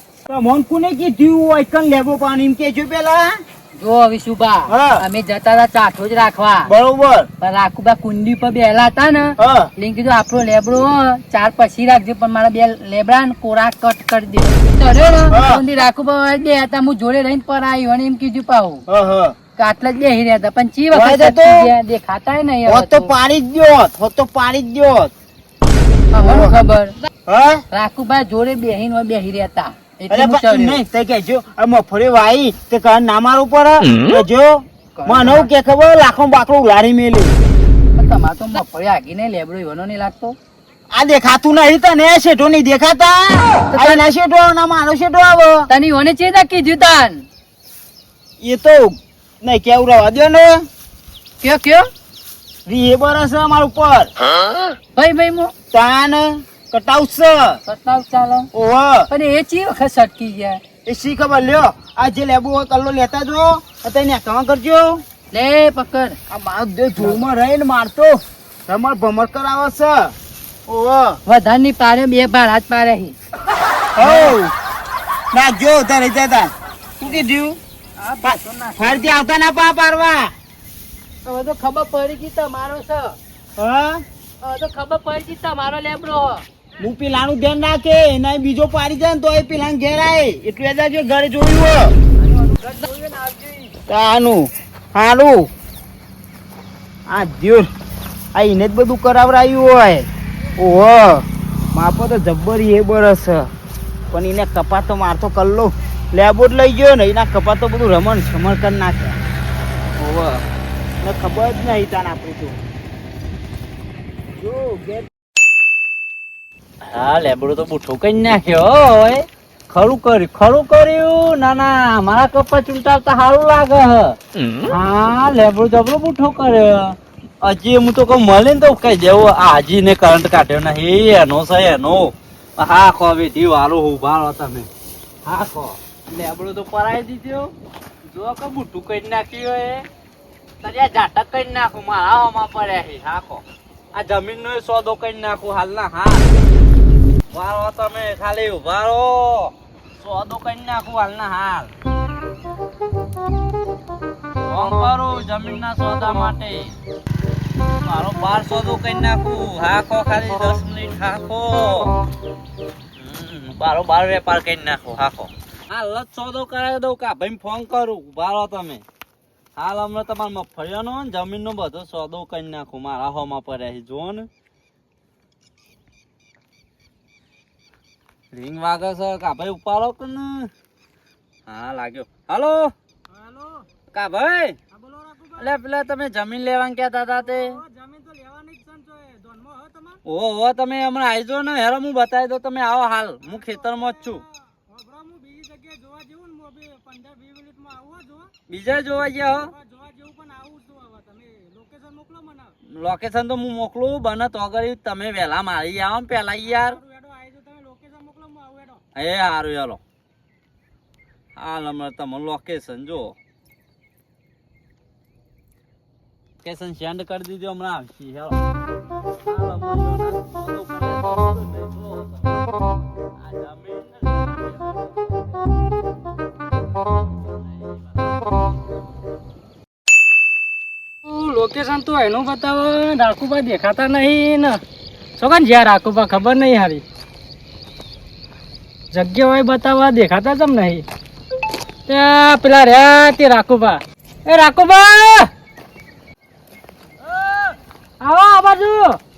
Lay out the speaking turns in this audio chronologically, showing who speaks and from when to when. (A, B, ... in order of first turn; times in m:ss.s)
0:00.3-0:03.4 A
0:03.8-0:06.7 B
0:04.7-0:05.0 A
0:06.7-0:07.3 A
0:07.4-0:18.8 B
0:09.4-0:09.7 A
0:15.3-0:15.6 A
0:18.9-0:19.3 A
0:19.6-0:23.1 B
0:20.9-0:21.7 A
0:22.6-0:25.1 A
0:26.1-0:27.0 B
0:26.2-0:26.6 A
0:27.3-0:27.6 A
0:27.7-0:30.8 B
0:30.1-0:37.4 A
0:35.0-0:35.5 B
0:38.0-0:40.4 B
0:40.9-0:45.6 A
0:43.7-0:44.0 B
0:45.7-0:47.3 B
0:48.4-0:50.6 A
0:51.4-0:51.9 B
0:52.6-0:54.1 A
0:54.9-0:55.5 B
0:55.7-0:57.6 A
0:57.6-0:58.5 B
0:58.5-0:59.1 A
0:59.1-1:00.6 B
1:00.8-1:05.0 A
1:05.3-1:06.2 B
1:06.3-1:10.1 A
1:10.7-1:11.2 A
1:11.2-1:13.2 B
1:14.0-1:14.5 A
1:14.0-1:14.3 B
1:15.3-1:17.6 A
1:18.0-1:19.0 B
1:18.2-1:20.3 A
1:21.2-1:23.2 B
1:23.6-1:24.0 A
1:24.4-1:26.4 B
1:26.8-1:31.9 A
1:32.2-1:33.7 B
1:33.9-1:35.5 A
1:37.1-1:37.7 A
1:38.3-1:40.1 A
1:40.6-1:43.5 A
1:44.1-1:49.2 A
1:50.0-1:50.4 C
1:51.0-1:52.6 A
1:54.4-1:55.1 A
1:56.8-2:14.7 C
2:15.2-2:17.5 C
2:18.1-2:19.8 C
2:20.6-2:23.4 C
2:23.9-2:26.3 C
2:27.3-2:31.7 C
2:34.4-2:36.7 C
2:37.8-2:41.9 C
2:43.0-2:48.8 C
2:49.6-2:54.3 C
2:58.3-3:00.5 C
3:01.5-3:02.7 C
3:03.1-3:03.6 D
3:03.9-3:04.6 C
3:04.7-3:05.5 D
3:05.4-3:07.6 C
3:07.2-3:10.0 D
3:10.0-3:14.2 C
3:13.2-3:14.0 D
3:14.7-3:18.3 D
3:18.5-3:19.5 C
3:19.5-3:22.5 D
3:22.7-3:26.8 C
3:26.7-3:28.8 D
3:28.9-3:29.8 C
3:31.4-3:33.1 C
3:36.4-3:38.4 C
3:39.2-3:42.4 C
3:43.2-3:45.4 C
3:47.2-3:47.8 C
3:51.0-3:54.6 D
3:55.2-3:56.8 D
3:58.9-4:00.8 D
4:01.9-4:05.3 D
4:07.0-4:07.6 C
4:08.0-4:09.0 D